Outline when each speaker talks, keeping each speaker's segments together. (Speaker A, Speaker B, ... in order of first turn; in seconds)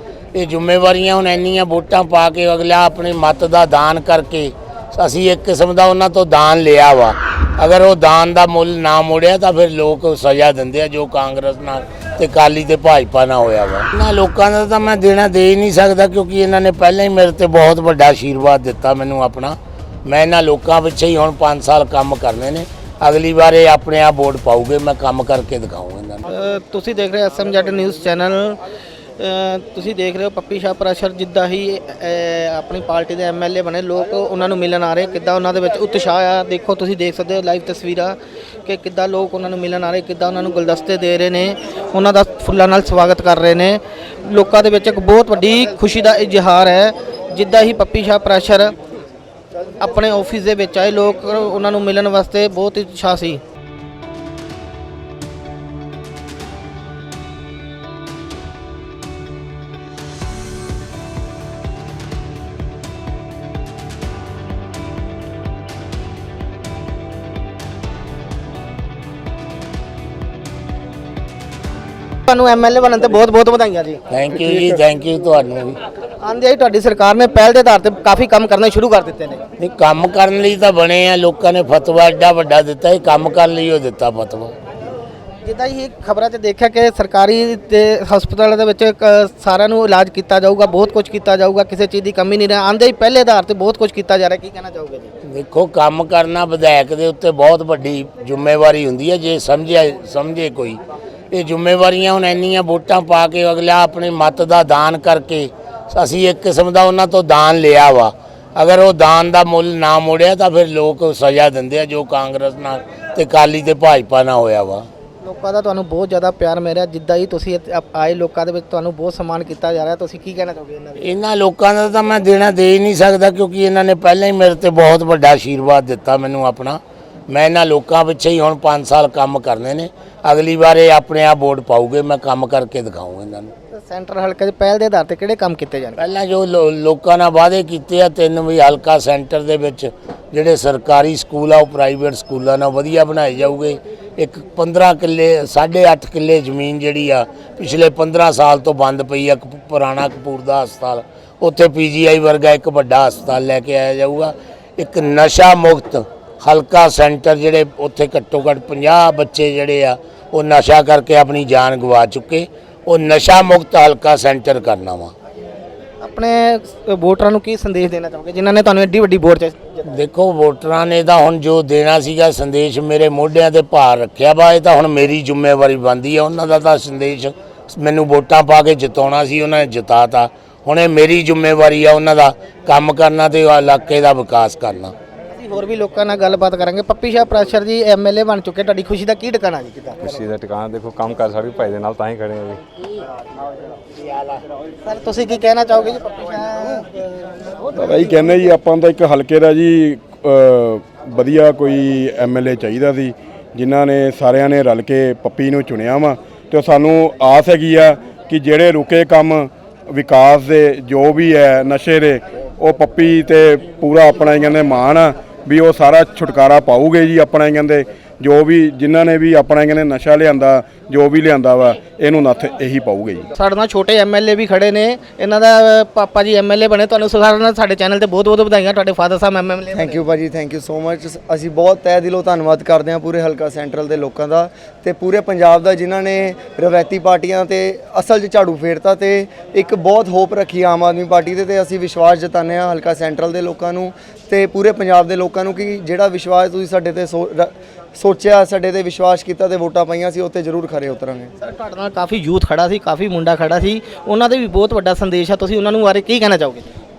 Speaker A: 0.3-26.2, 74.1-75.8, 79.6-84.5, 95.2-100.8, 101.3-114.8, 121.0-126.8, 127.3-133.5, 136.0-165.1, 169.8-184.9
Speaker B: 26.3-28.6, 29.2-48.7, 49.8-53.4, 72.3-74.0, 76.2-79.4, 85.4-95.1, 115.2-121.2, 133.7-136.0, 166.0-169.8, 185.3-190.1, 194.8-196.9, 223.3-230.0, 251.4-256.7
Speaker C: 190.0-192.6
Speaker D: 197.7-223.3
Speaker E: 229.7-251.3